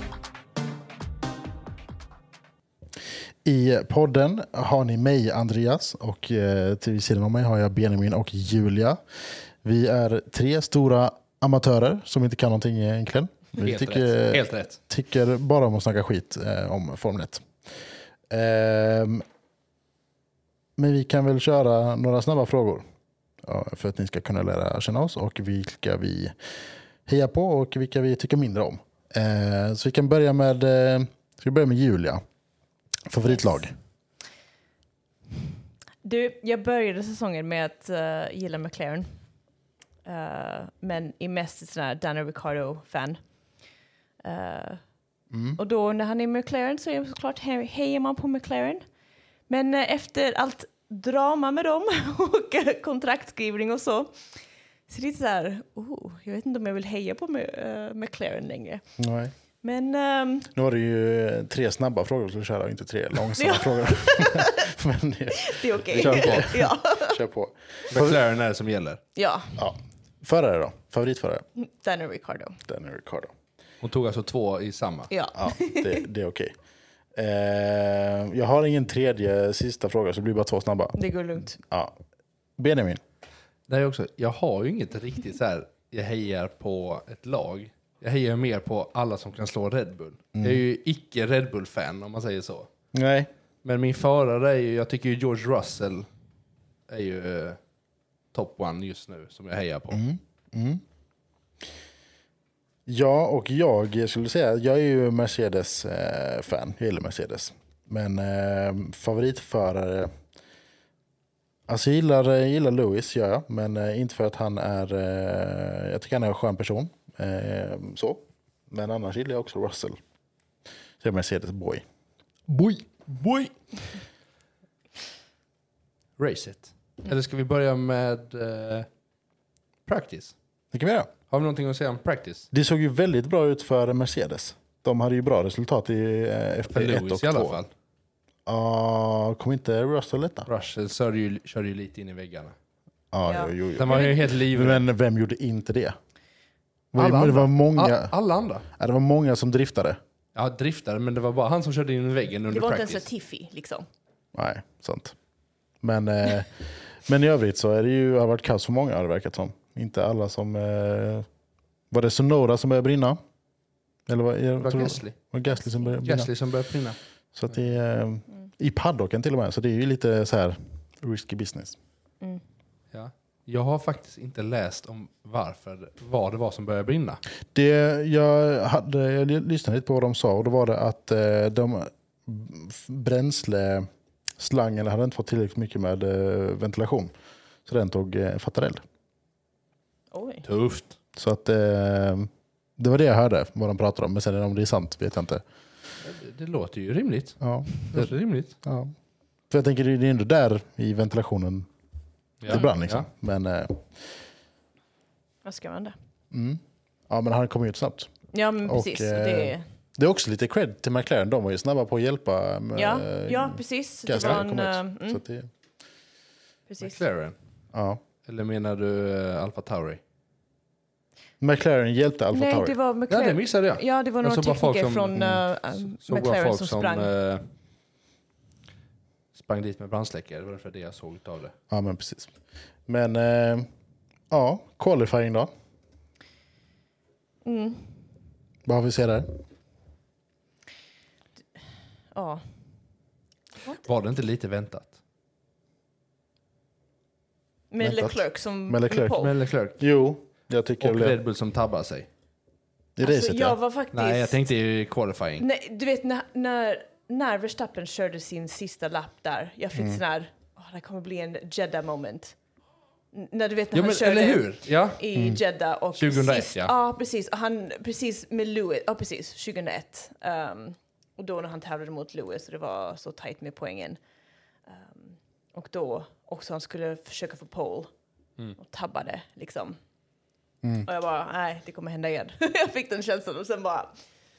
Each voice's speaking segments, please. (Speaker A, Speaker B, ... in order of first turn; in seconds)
Speaker A: 3.4-9.0, 9.6-17.5, 18.3-19.2, 20.8-22.8, 23.4-26.4, 27.1-32.2, 33.1-33.8, 45.3-45.6, 59.0-59.3, 60.5-68.2, 69.6-71.5, 72.7-73.3, 75.3-76.5, 77.1-81.0, 81.5-82.0, 82.6-83.0, 90.3-90.6, 92.9-93.3, 99.9-100.8, 102.9-110.1, 111.7-120.0, 121.0-121.8, 130.7-131.1, 132.5-137.6, 138.4-140.5, 143.1-145.9, 146.9-148.1, 148.7-150.0, 154.3-155.2, 155.8-161.3, 161.9-163.2, 164.1-166.3, 167.3-171.8, 177.5-183.9, 184.4-187.1, 187.7-188.8, 191.2-195.4, 197.4-198.9, 199.5-201.7, 202.5-203.9, 206.3-208.1, 208.7-215.5, 217.7-218.0, 221.4-222.8, 231.7-232.3, 232.9-233.7, 234.3-235.5, 238.6-239.4, 247.8-249.2, 249.8-251.2, 252.9-253.6, 259.8-260.0
Speaker B: 13.6-14.8, 65.9-66.5, 67.9-69.0, 73.8-75.1, 83.7-92.7, 93.6-96.1, 96.9-97.6, 98.3-100.0, 122.5-123.5, 126.2-128.9, 129.9-130.3, 131.3-132.5, 136.7-137.7, 140.5-142.6, 143.7-144.9, 146.9-148.7, 150.3-153.0, 164.6-165.2, 166.0-167.0, 172.9-177.2, 190.4-190.9, 196.0-198.5, 202.4-203.1, 216.8-217.3, 218.2-220.0, 223.1-227.5, 229.3-231.5, 243.8-245.0, 249.1-249.8, 250.8-252.1, 253.9-255.4, 263.7-265.0, 265.9-266.7
Speaker C: 36.0-39.1, 40.1-43.2, 44.2-44.8, 45.6-48.8, 49.5-58.8, 59.6-60.5, 63.4-64.7, 65.3-67.2, 69.1-69.6, 71.6-72.6, 75.1-76.0, 81.0-81.6, 143.2-144.2, 152.5-153.9, 190.1-190.4, 205.4-205.9, 208.3-209.6, 212.7-215.2, 216.7-217.0, 222.3-227.1, 237.4-237.9, 242.1-242.4, 247.7-249.3, 253.0-254.4, 255.4-262.3, 263.1-274.0, 274.7-277.9, 278.6-279.8, 280.8-283.9